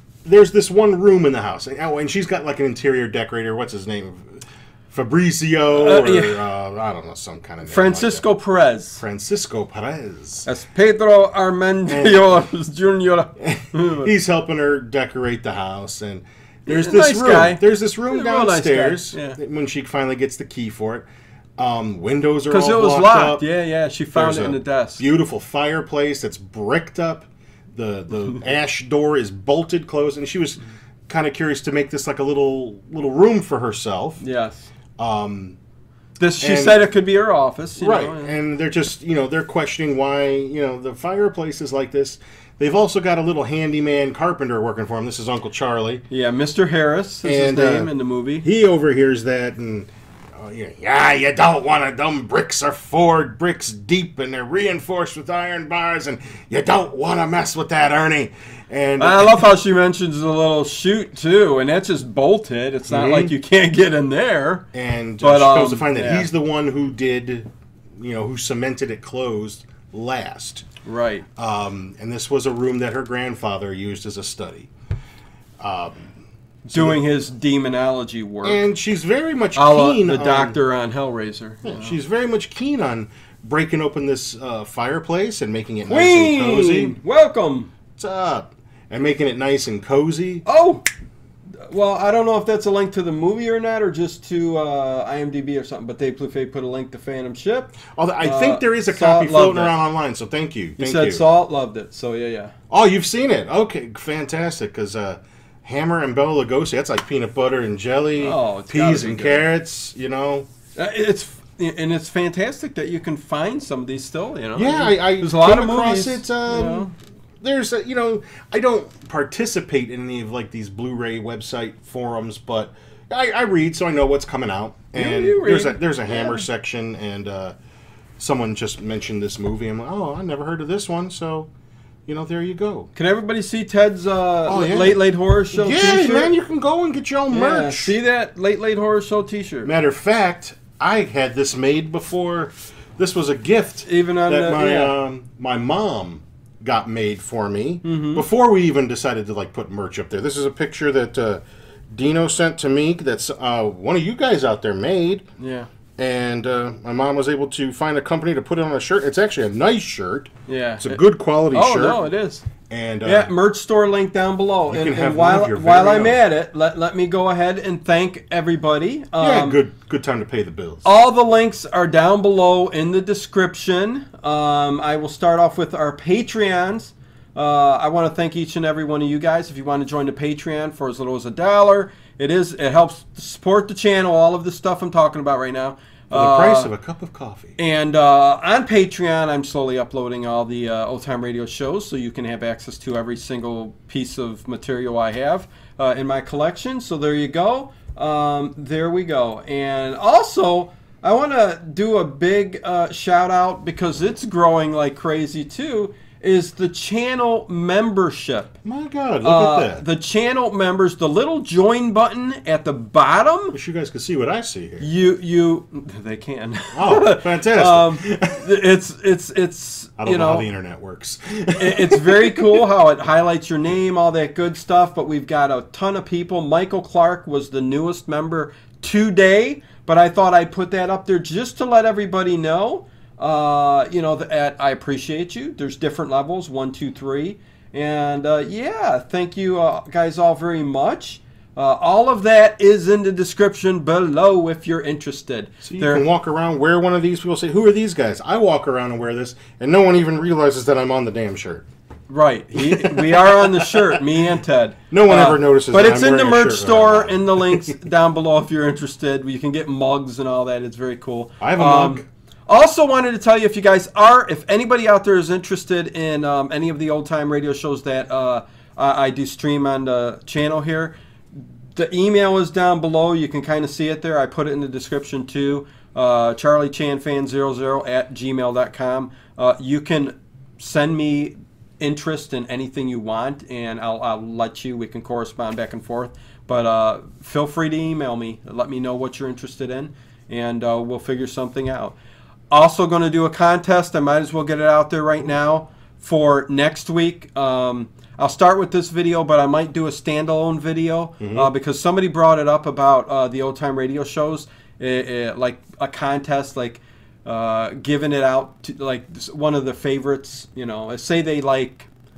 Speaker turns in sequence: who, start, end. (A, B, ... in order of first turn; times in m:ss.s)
0:00.2-0:08.2 A
0:05.7-0:06.4 B
0:07.6-0:09.0 B
0:09.0-0:10.5 A
0:10.4-0:14.1 B
0:11.9-0:12.3 A
0:13.4-0:23.5 A
0:16.7-0:19.4 B
0:22.5-0:25.0 B
0:24.1-0:34.2 A
0:34.2-0:34.7 B
0:35.0-0:35.6 A
0:36.2-0:38.4 B
0:36.4-0:36.8 A
0:37.8-0:46.0 A
0:46.1-0:48.5 B
0:47.2-0:47.9 A
0:48.4-0:59.5 A
0:59.0-1:04.6 B
1:02.9-1:03.3 A
1:04.7-1:10.7 A
1:05.2-1:06.3 B
1:10.8-1:11.3 B
1:11.4-1:14.7 A
1:15.6-1:16.1 A
1:16.6-1:18.6 B
1:16.7-1:17.0 A
1:18.4-1:20.6 A
1:19.6-1:22.0 B
1:21.6-1:27.0 A
1:25.9-1:27.7 B
1:28.0-1:30.4 A
1:30.4-1:30.8 B
1:31.7-1:39.8 B
1:38.0-1:41.2 A
1:40.8-1:42.5 B
1:42.7-1:50.5 A
1:48.2-1:49.5 B
1:50.8-1:56.9 B
1:54.6-1:56.9 A
1:57.4-2:07.6 A
2:04.9-2:06.4 B
2:08.2-2:11.5 A
2:12.1-2:12.9 A
2:13.0-2:16.3 B
2:14.5-2:18.0 A
2:17.3-2:19.7 B
2:19.6-2:35.2 A
2:23.8-2:25.0 B
2:27.8-2:28.2 B
2:35.4-2:35.7 B
2:36.0-2:42.0 A
2:40.5-2:41.0 B
2:41.5-2:42.4 B
2:42.7-2:43.3 A
2:43.0-2:49.6 B
2:44.7-2:46.2 A
2:49.2-2:50.9 A
2:50.8-3:06.7 B
3:06.1-3:07.6 A
3:07.6-3:28.6 B
3:28.6-3:29.8 A
3:29.2-3:33.6 B
3:33.5-3:34.9 A
3:34.8-3:40.5 B
3:36.7-3:38.5 A
3:40.0-3:42.7 A
3:41.6-4:06.0 B
4:05.6-4:11.7 A
4:12.1-4:31.0 B
4:12.6-4:14.0 A
4:14.9-4:17.8 A
4:21.4-4:22.0 A
4:31.8-4:52.0 B
4:52.5-5:11.9 B
5:01.2-5:01.5 A